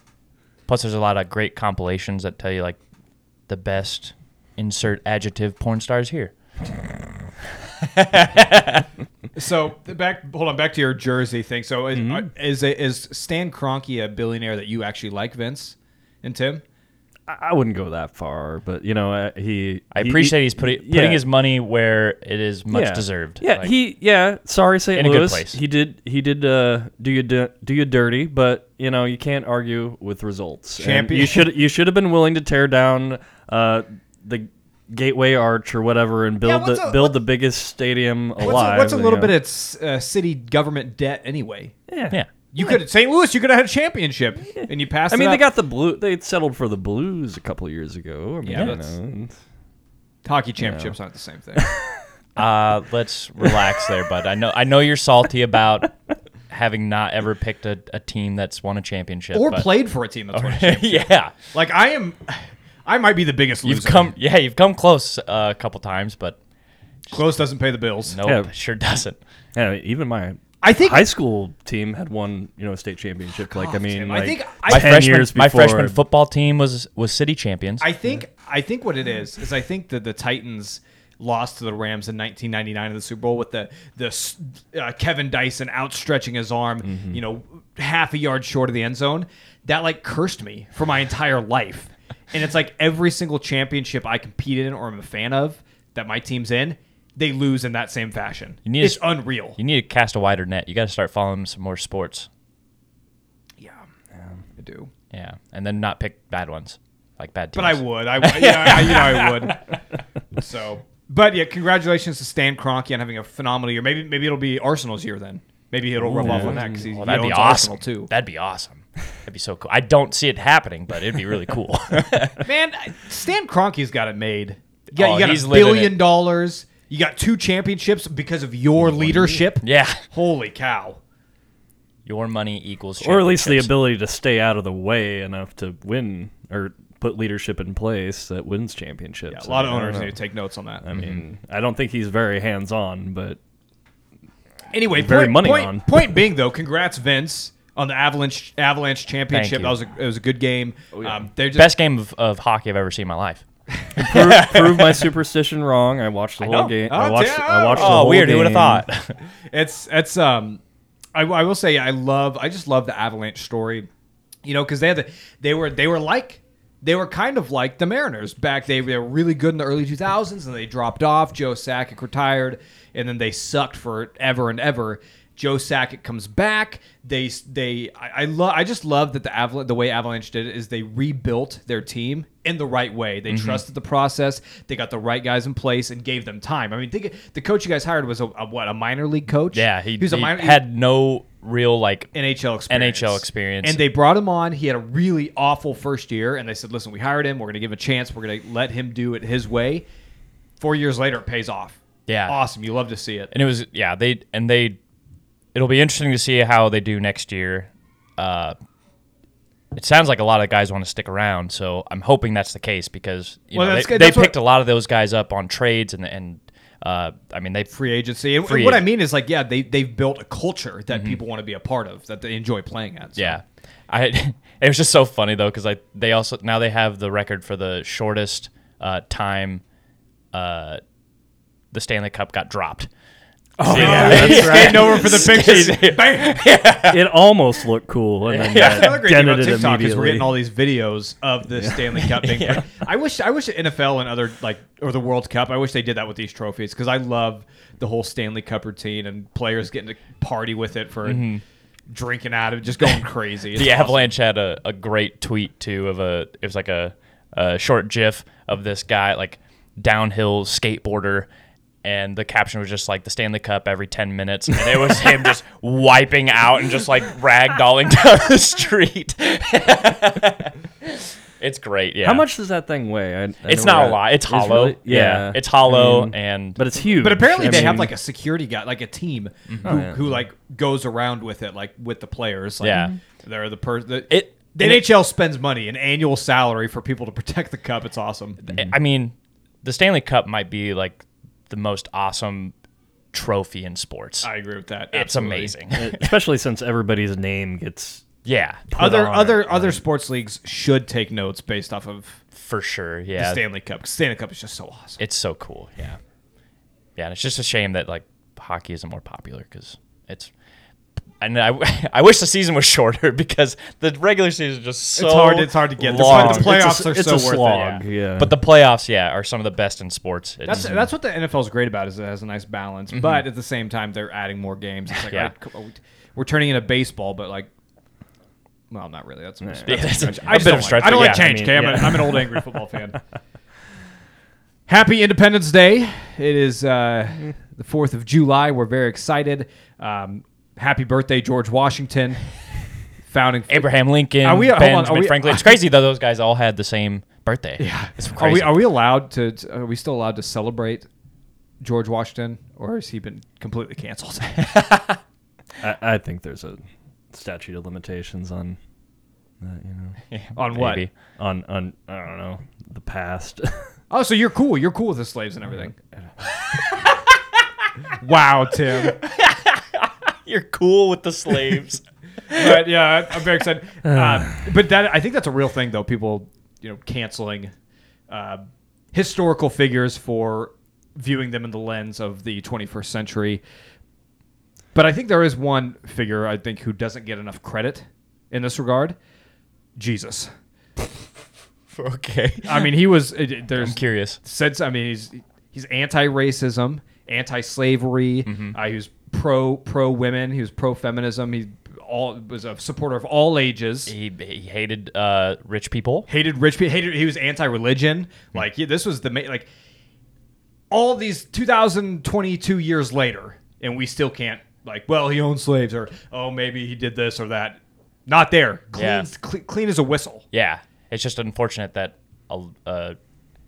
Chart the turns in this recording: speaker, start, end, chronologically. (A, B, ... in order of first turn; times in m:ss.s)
0:00.7-0:02.8 A
0:03.5-0:06.3 A
0:07.8-0:08.8 A
0:09.3-0:16.6 B
0:11.9-0:12.3 C
0:17.3-0:21.2 C
0:19.9-0:23.7 A
0:22.7-0:39.3 C
0:25.0-0:25.6 A
0:30.8-0:31.5 B
0:36.4-0:37.2 B
0:38.4-0:41.7 B
0:41.9-0:42.6 C
0:42.5-0:45.4 B
0:44.6-0:49.3 C
0:48.4-0:48.9 B
0:50.2-0:51.7 B
0:50.6-0:50.9 C
0:51.6-0:52.0 C
0:52.4-0:56.0 A
0:56.5-0:59.7 A
0:59.3-1:04.1 B
1:00.3-1:01.3 A
1:03.6-1:06.4 A
1:07.1-1:08.2 B
1:08.1-1:09.2 A
1:08.2-1:08.5 C
1:09.5-1:16.0 C
1:10.6-1:11.1 B
1:13.7-1:14.9 B
1:14.7-1:17.9 A
1:17.8-1:39.6 B
1:26.9-1:27.2 C
1:38.6-1:42.3 A
1:43.6-1:43.8 B
1:44.1-1:44.4 C
1:44.6-1:44.9 B
1:45.1-1:49.6 A
1:47.5-1:49.6 B
1:50.4-1:58.1 B
1:56.0-1:56.8 C
1:56.3-2:02.5 A
2:02.4-2:11.0 B
2:04.9-2:06.1 A
2:08.8-2:09.4 C
2:09.6-2:10.0 A
2:12.0-2:13.7 A
2:13.0-2:20.2 C
2:19.3-2:20.8 B
2:20.8-2:23.4 C
2:24.7-2:31.7 B
2:24.9-2:26.2 C
2:29.3-2:29.8 A
2:30.9-2:31.2 C
2:31.5-2:33.4 A
2:34.0-2:34.6 B
2:34.0-2:38.8 C
2:34.3-2:34.8 A
2:36.4-2:38.1 B
2:37.7-2:39.2 A
2:39.5-2:40.6 B
2:41.1-2:43.9 B
2:44.4-3:10.6 B
3:03.3-3:03.6 A
3:09.5-3:12.1 A
3:12.1-3:19.8 B
3:12.7-3:13.8 A
3:20.6-3:23.3 B
3:22.1-3:22.4 A
3:23.3-3:24.8 A
3:25.5-3:28.6 A
3:29.7-3:38.9 A
3:33.5-3:34.4 B
3:37.7-3:43.4 B
3:43.2-3:49.6 A
3:50.3-3:50.8 A
3:51.7-3:52.9 A
3:53.6-3:56.4 B
3:53.6-3:55.2 C
3:53.7-3:57.1 A
3:56.9-4:00.4 C
3:58.3-3:59.0 A
3:58.5-4:11.2 B
4:02.0-4:02.6 A
4:11.0-4:11.4 A
4:11.9-4:14.1 B
4:13.5-4:21.3 A
4:21.8-4:32.2 A
4:32.0-4:37.9 C
4:33.4-4:36.6 A
4:37.0-4:48.4 B
4:37.4-4:37.7 A
4:39.5-4:39.8 A
4:39.6-4:40.1 C
4:42.6-4:42.9 A
4:42.6-4:43.0 C
4:44.1-4:44.9 A
4:48.4-4:52.5 A
4:53.1-4:54.3 A
4:54.2-4:55.5 B
4:54.9-4:56.1 A
4:55.7-4:58.1 C
4:58.2-4:58.8 A
4:58.7-4:59.8 C
4:58.8-5:02.2 B
5:02.3-5:03.4 A
5:03.2-5:05.0 B
5:05.0-5:06.0 A
5:07.0-5:10.3 A
5:11.2-5:16.6 A
5:14.9-5:17.6 B
5:15.8-5:18.4 C
5:17.4-5:20.8 A
5:20.4-5:27.5 B
5:20.5-5:20.8 C
5:22.9-5:23.2 A
5:24.9-5:25.3 A
5:28.7-5:33.0 B
5:29.4-5:32.6 C
5:29.6-5:31.9 A
5:34.7-5:42.2 B
5:43.1-5:43.7 B
5:43.5-5:48.7 A
5:44.2-5:45.6 B
5:47.6-5:50.9 B
5:51.6-5:54.5 B
5:54.4-5:55.0 A
5:55.6-5:58.6 C
5:59.4-6:00.0 C
6:00.1-6:00.9 A
6:00.4-6:00.8 B
6:01.2-6:03.7 C
6:03.9-6:05.8 B
6:06.2-6:07.2 A
6:08.0-6:09.0 B
6:08.8-6:13.3 A
6:12.3-6:17.5 B
6:13.9-6:14.5 C
6:18.1-6:23.4 B
6:24.7-6:29.0 B
6:29.8-6:30.3 B
6:31.7-6:32.7 A
6:32.4-6:43.9 B
6:33.6-6:34.2 A
6:38.3-6:38.6 A
6:43.9-6:46.1 A
6:46.1-6:49.5 B
6:50.7-7:00.2 B
6:58.8-6:59.1 A
7:00.3-7:03.0 A